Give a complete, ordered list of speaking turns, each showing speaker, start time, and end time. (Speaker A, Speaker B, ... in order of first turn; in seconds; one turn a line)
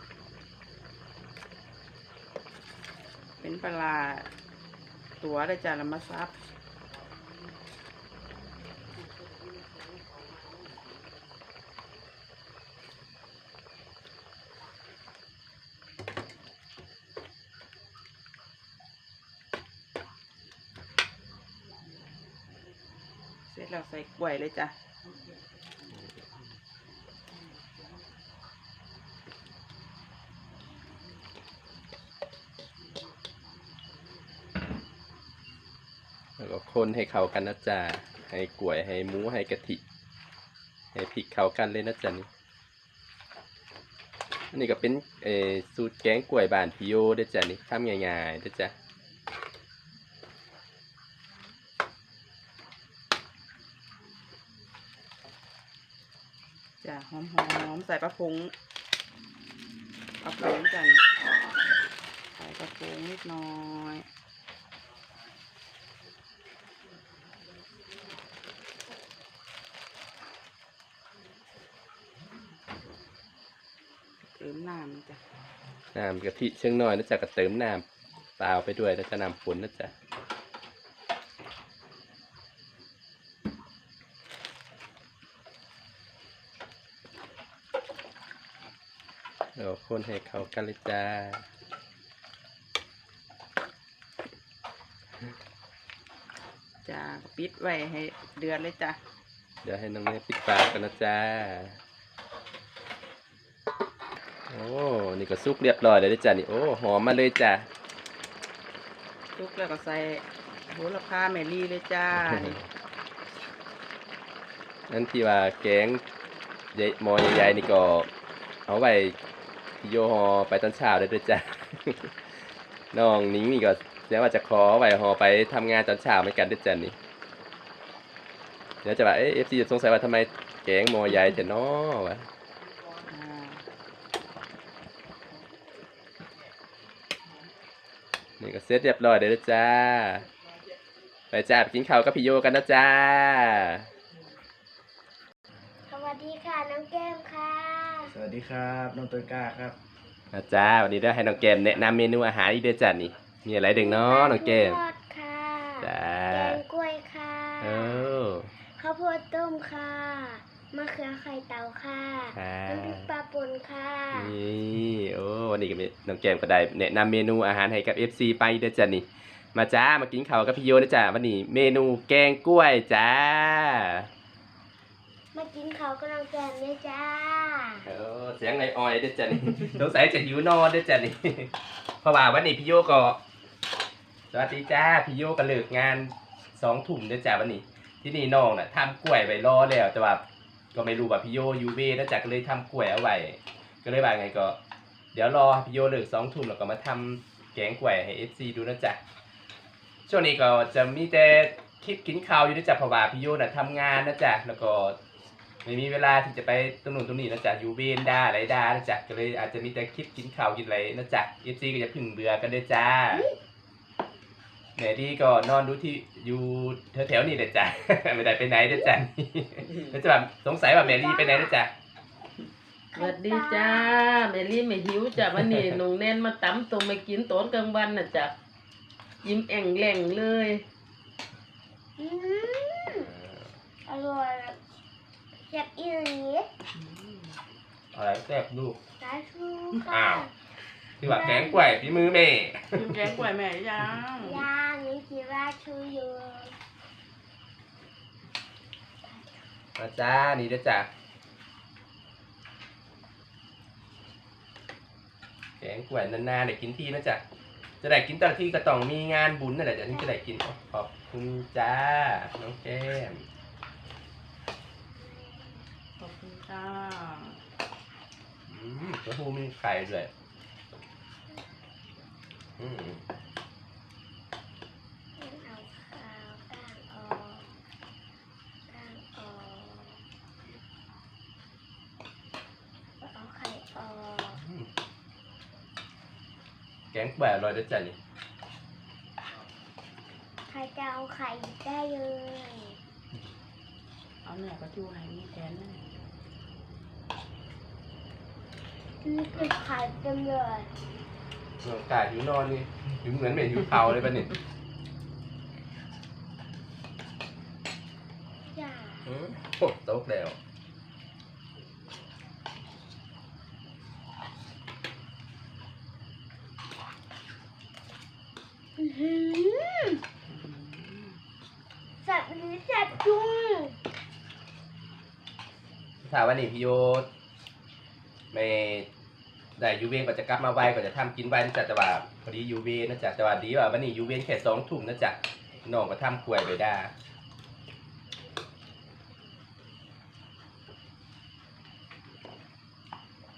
Speaker A: 3.4-4.3
Speaker A: 5.2-6.3
Speaker A: 23.5-24.7
Speaker B: 36.4-39.8
Speaker B: 40.9-42.3
Speaker B: 44.5-48.7
Speaker A: 56.8-58.5
Speaker A: 60.2-61.0
Speaker A: 62.4-64.1
Speaker A: 74.4-75.2
Speaker C: 74.4-75.2
Speaker B: 75.9-77.8
Speaker B: 78.4-79.9
Speaker B: 89.6-91.5
Speaker A: 96.8-99.0
Speaker B: 99.6-101.8
Speaker B: 104.5-107.7
Speaker A: 109.4-112.5
Speaker C: 112.0-112.5
Speaker B: 112.2-112.6
Speaker B: 114.9-116.0
Speaker B: 116.7-118.1
Speaker B: 118.7-119.2
Speaker B: 119.8-122.2
Speaker B: 122.9-127.0
Speaker B: 128.8-132.3
Speaker A: 133.1-133.6
Speaker B: 138.4-140.3
Speaker B: 141.3-143.9
Speaker D: 145.9-148.1
Speaker C: 148.1-149.8
Speaker B: 150.3-154.8
Speaker D: 153.8-158.2
Speaker B: 155.8-156.6
Speaker B: 157.6-158.5
Speaker D: 158.8-164.3
Speaker B: 162.3-163.1
Speaker B: 164.1-174.1
Speaker D: 175.3-177.9
Speaker B: 177.8-183.2
Speaker B: 184.3-194.6
Speaker B: 195.1-199.0
Speaker B: 200.1-205.0
Speaker B: 205.7-213.3
Speaker B: 214.8-221.7
Speaker E: 219.7-220.0
Speaker D: 220.8-221.6
Speaker D: 222.9-224.0
Speaker E: 223.0-228.3
Speaker E: 229.2-230.6
Speaker D: 232.0-233.1
Speaker B: 232.9-233.5
Speaker D: 233.9-234.6
Speaker D: 235.4-236.5
Speaker A: 236.7-237.4
Speaker B: 237.9-238.8
Speaker D: 239.0-240.3
Speaker B: 239.9-240.3
Speaker B: 241.0-243.1
Speaker D: 241.1-241.9
Speaker A: 242.7-244.4
Speaker D: 244.2-246.5
Speaker D: 249.1-249.4
Speaker B: 249.8-250.9
Speaker B: 255.6-257.2
Speaker B: 257.8-263.3
Speaker D: 265.0-265.6
Speaker A: 266.0-267.4
Speaker B: 268.5-270.1
Speaker B: 272.6-273.1
Speaker D: 275.2-277.6
Speaker D: 278.7-280.0
Speaker D: 283.0-284.4
Speaker B: 284.4-284.7
Speaker B: 286.9-288.0
Speaker D: 290.5-292.8
Speaker A: 294.2-295.8
Speaker D: 299.0-300.7
Speaker B: 301.6-304.3
Speaker D: 308.5-309.1
Speaker B: 309.1-310.4
Speaker D: 318.8-320.0
Speaker A: 320.3-321.2
Speaker D: 322.0-323.8
Speaker B: 326.1-327.1
Speaker B: 328.3-328.9
Speaker B: 329.6-336.9